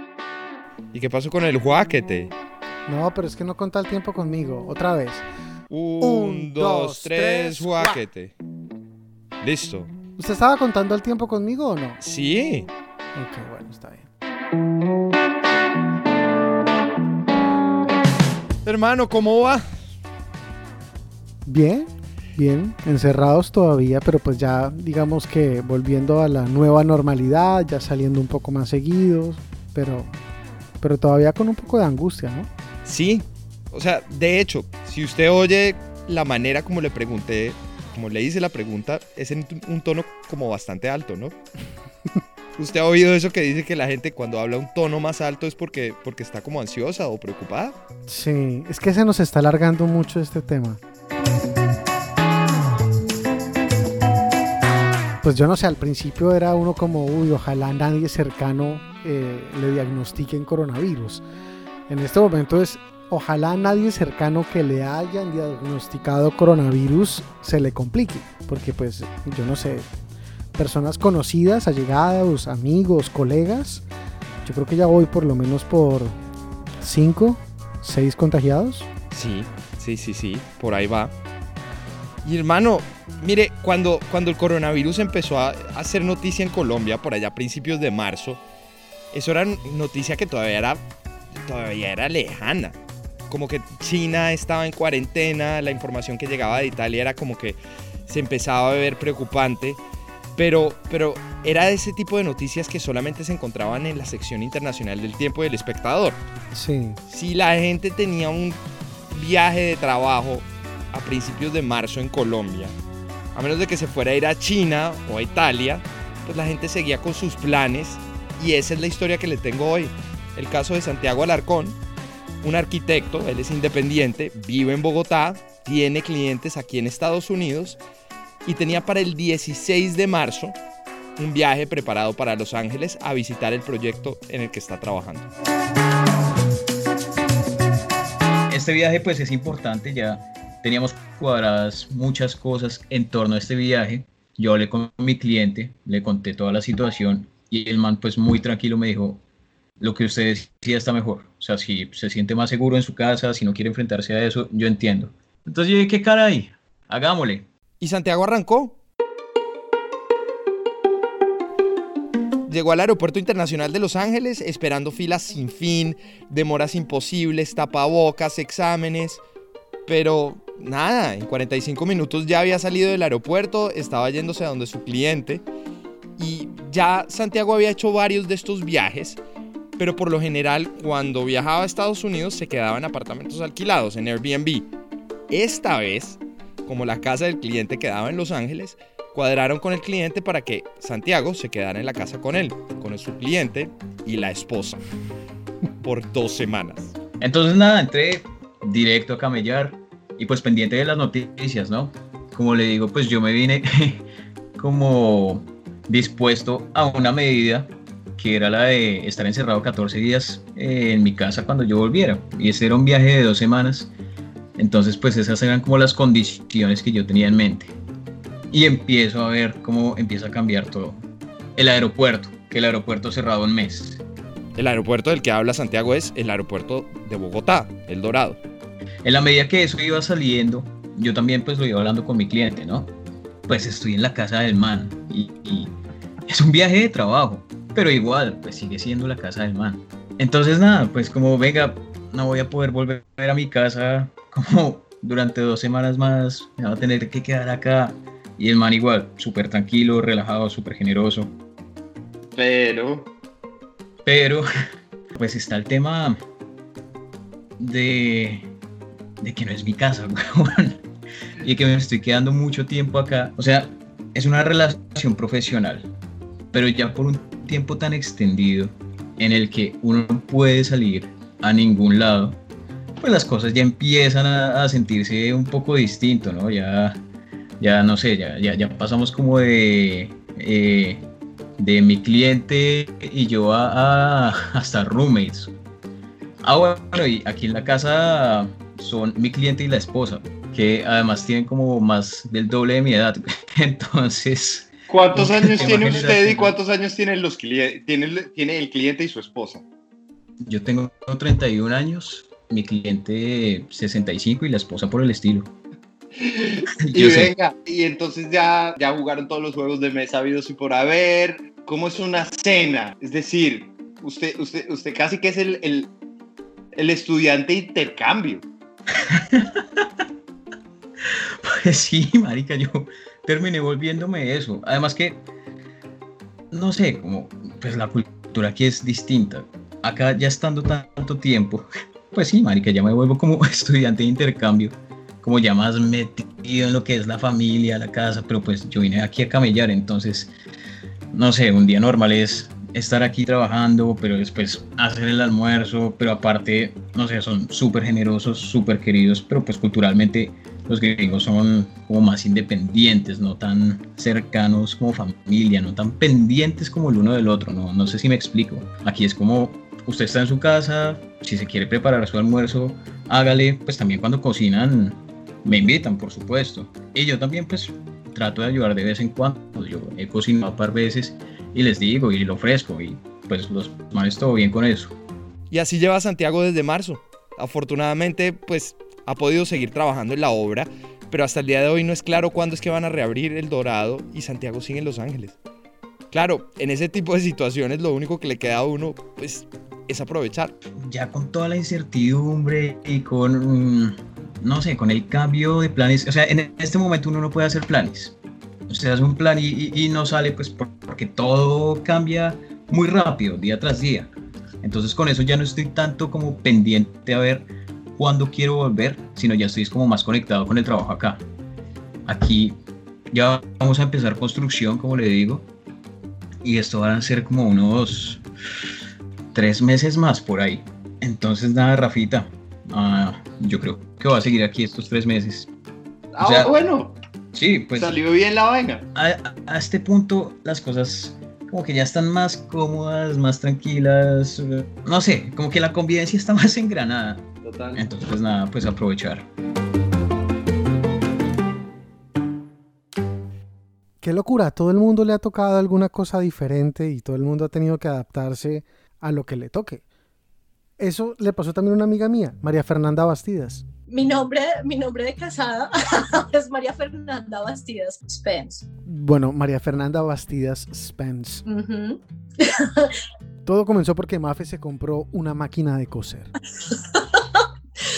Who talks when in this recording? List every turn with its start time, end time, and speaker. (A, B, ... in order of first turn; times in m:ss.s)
0:00.9-0:02.3 A
0:02.9-0:05.2 B
0:05.7-0:08.3 A
0:06.0-0:08.0 B
0:09.4-0:09.9 A
0:10.2-0:12.0 B
0:12.0-0:12.7 A
0:13.1-0:14.1 B
0:18.6-0:19.6 A
0:21.4-0:30.1 B
0:30.8-0:32.5 B
0:32.8-0:41.3 A
0:42.6-0:47.8 A
0:48.1-0:50.8 B
0:55.2-1:01.2 B
1:01.9-1:09.9 B
1:10.6-1:13.8 B
1:14.4-1:16.1 B
1:16.8-1:18.9 B
1:19.1-1:21.1 A
1:22.2-1:28.4 A
1:29.1-1:30.8 A
1:31.4-1:32.8 A
1:33.3-1:39.8 A
1:40.4-1:46.2 A
1:46.5-1:47.0 B
1:47.1-1:48.6 A
1:49.1-1:52.7 A
1:53.3-2:01.8 A
2:02.4-2:07.8 A
2:08.4-2:10.6 A
2:11.2-2:15.3 A
2:18.5-2:29.2 C
2:29.8-2:37.4 C
2:37.8-2:38.8 A
2:42.5-2:49.2 A
2:49.9-2:55.4 A
2:56.2-2:59.2 A
2:59.8-3:04.6 A
3:05.3-3:14.8 A
3:15.8-3:16.9 A
3:17.2-3:24.0 C
3:24.6-3:33.9 C
3:34.6-3:37.7 C
3:38.5-3:41.0 C
3:41.6-3:44.0 C
3:44.6-3:48.4 A
3:49.0-3:52.9 C
3:53.5-3:55.7 C
3:56.3-4:11.3 C
4:12.3-4:13.1 D
4:14.0-4:14.4 C
4:15.1-4:16.2 C
4:17.6-4:18.5 C
4:19.2-4:20.8 C
4:21.4-4:25.9 C
4:26.5-4:32.4 C
4:33.0-4:37.0 C
4:37.6-4:41.0 C
4:41.6-4:45.5 C
4:46.4-4:56.5 C
4:54.9-4:59.6 D
5:00.4-5:05.5 C
5:06.2-5:15.9 D
5:06.9-5:07.3 C
5:16.8-5:18.5 D
5:19.3-5:19.8 C
5:21.4-5:25.2 C
5:26.5-5:40.3 C
5:41.1-6:14.9 C
6:15.5-6:25.4 A
6:26.1-6:30.5 A
6:30.8-6:38.2 C
6:38.7-6:51.2 C
6:52.0-6:52.6 C
6:53.1-6:55.5 C
6:56.4-6:58.2 C
6:59.3-7:05.5 C
7:06.1-7:07.0 D
7:06.2-7:06.5 C
7:07.3-7:08.0 C
7:07.7-7:08.8 D
7:08.9-7:19.2 C
7:17.4-7:17.9 D
7:24.0-7:29.8 B
7:30.8-7:33.6 B
7:33.9-7:38.6 E
7:38.9-7:41.4 B
7:41.4-7:43.0 E
7:43.4-7:46.3 B
7:46.6-7:47.5 E